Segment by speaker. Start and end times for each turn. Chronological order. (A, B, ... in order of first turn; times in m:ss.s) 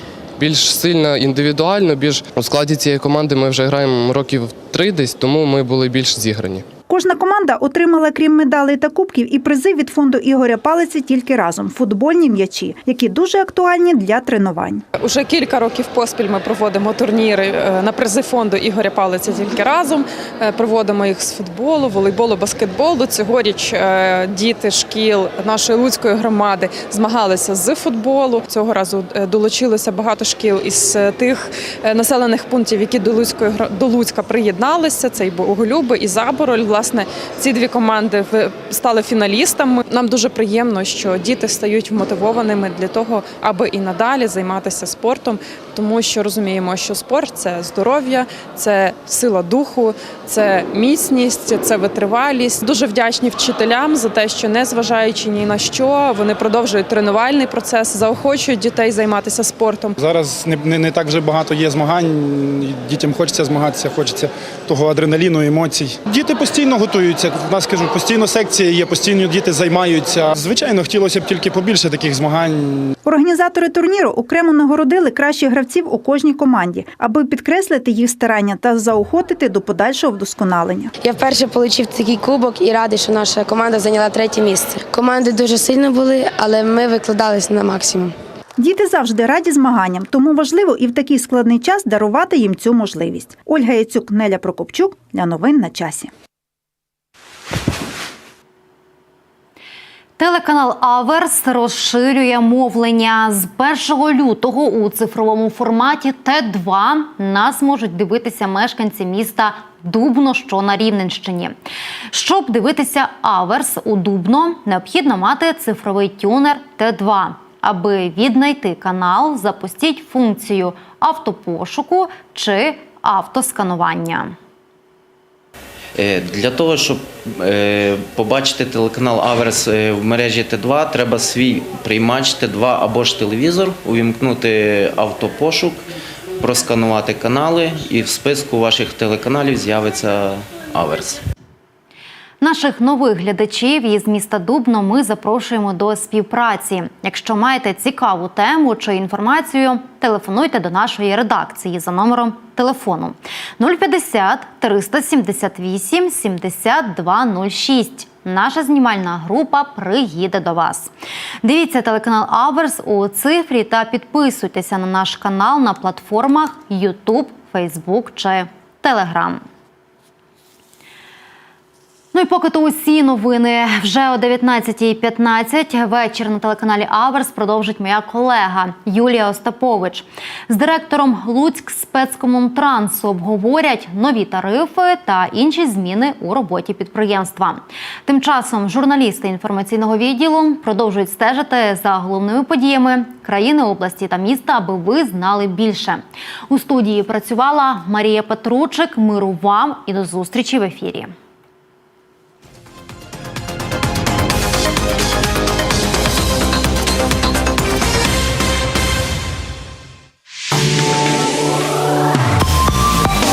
0:00.4-0:06.7 A
0:06.9-0:14.8 B
0:15.0-1:00.0 C
1:00.0-1:12.9 D
1:13.0-1:20.9 B
1:21.0-1:28.1 E
1:28.6-1:36.1 B
1:40.2-1:51.5 F
1:52.1-2:04.4 F
2:06.0-2:15.8 G
2:16.4-2:21.2 G
2:22.4-2:40.9 F
2:41.4-2:49.4 F
2:52.1-3:21.1 F